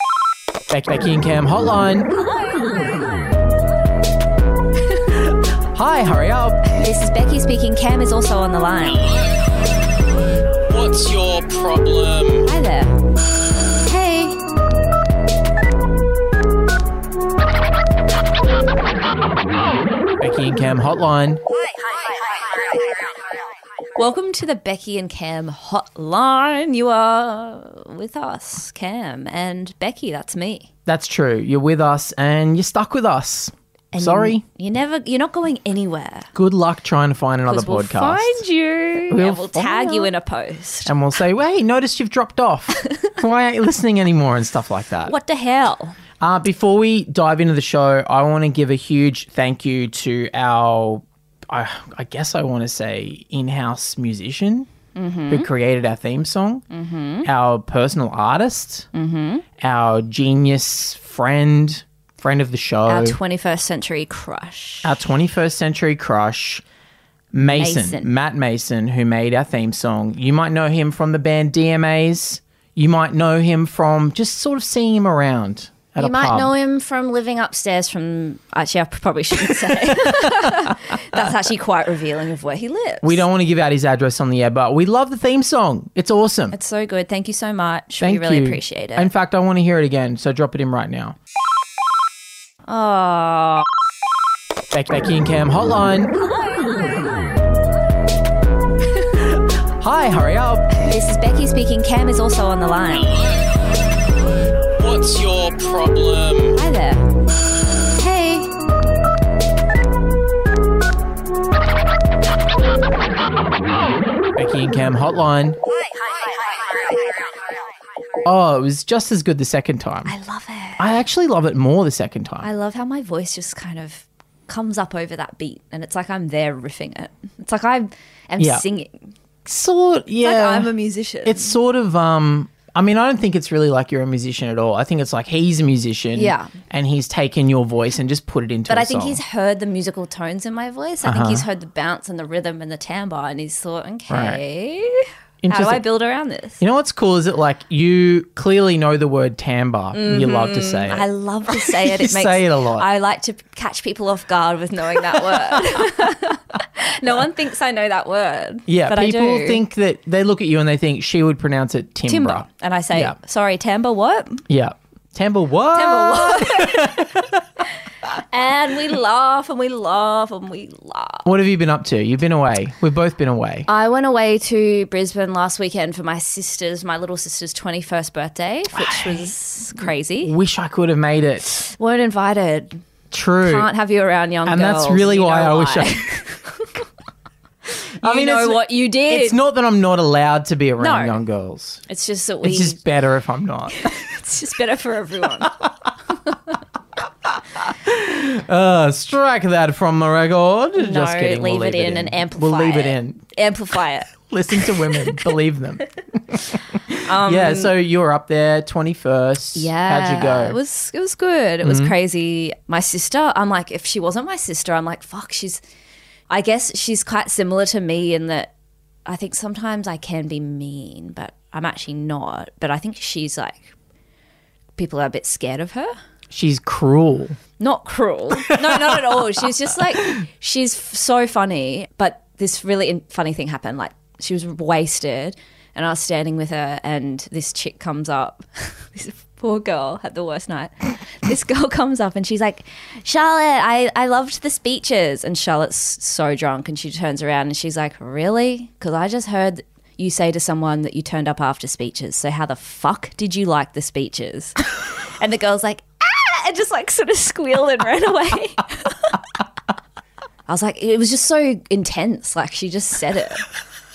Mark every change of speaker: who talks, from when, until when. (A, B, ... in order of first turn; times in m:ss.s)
0:00.7-0:02.1 A
0:02.1-0:02.7 B
0:05.7-0:06.6 A
0:06.8-0:09.0 B
0:09.0-0:09.4 C
0:10.6-0:12.5 C
0:12.4-0:12.9 B
0:13.8-0:14.4 B
0:20.2-0:21.4 A
0:24.0-0:30.7 B
0:30.9-0:34.4 A
0:33.9-0:36.3 B
0:36.3-0:38.4 A
0:37.5-0:40.9 B
0:39.1-0:40.1 A
0:40.8-0:45.1 A
0:45.0-0:46.0 B
0:46.2-0:54.7 A
0:54.9-0:55.5 B
0:55.3-0:56.6 A
0:56.7-0:57.3 B
0:57.2-0:58.9 A
0:58.9-0:59.4 B
0:59.6-1:03.2 A
1:02.8-1:04.9 B
1:04.8-1:06.6 A
1:07.3-1:16.5 A
1:07.4-1:08.1 B
1:16.0-1:23.2 B
1:19.6-1:21.2 A
1:23.0-1:26.6 A
1:26.5-1:29.1 B
1:28.0-1:31.2 A
1:32.6-1:33.7 B
1:34.7-1:36.1 A
1:39.8-1:40.7 A
1:40.8-1:43.1 B
1:43.0-1:43.5 C
1:44.8-1:46.6 C
1:46.5-1:47.0 B
1:47.9-1:48.5 B
1:54.4-1:55.6 A
1:58.2-2:00.1 A
2:00.0-2:00.8 B
2:00.8-2:02.5 A
2:02.4-2:09.1 B
2:08.4-2:08.6 A
2:09.4-2:10.7 A
2:10.2-2:11.6 B
2:11.2-2:19.2 A
2:16.1-2:16.5 B
2:18.7-2:26.6 B
2:21.0-2:21.4 A
2:24.1-2:24.4 A
2:25.4-2:25.8 A
2:26.6-2:32.8 A
2:29.9-2:39.6 B
2:35.1-2:36.0 A
2:38.7-2:43.2 A
2:42.1-2:44.4 B
2:44.5-2:47.5 A
2:45.7-2:46.9 B
2:48.2-2:51.2 B
2:51.2-2:53.7 A
2:53.7-3:00.3 B
2:58.7-3:01.6 A
3:01.6-3:02.8 B
3:03.1-3:03.7 A
3:03.4-3:06.7 B
3:04.4-3:06.0 A
3:08.0-3:11.8 A
3:08.0-3:09.4 B
3:10.8-3:11.2 B
3:11.9-3:12.8 B
3:12.4-3:13.9 A
3:13.7-3:15.5 B
3:15.4-3:15.7 A
3:17.5-3:23.2 A
3:20.8-3:25.2 B
3:24.3-3:30.6 A
3:27.0-3:27.7 B
3:29.5-3:35.6 B
3:31.6-3:31.9 A
3:36.3-3:38.5 B
3:39.0-3:43.7 B
3:44.8-3:45.9 B
3:46.3-3:47.4 A
3:47.6-4:19.2 B
3:48.4-3:49.5 A
4:20.5-4:23.4 B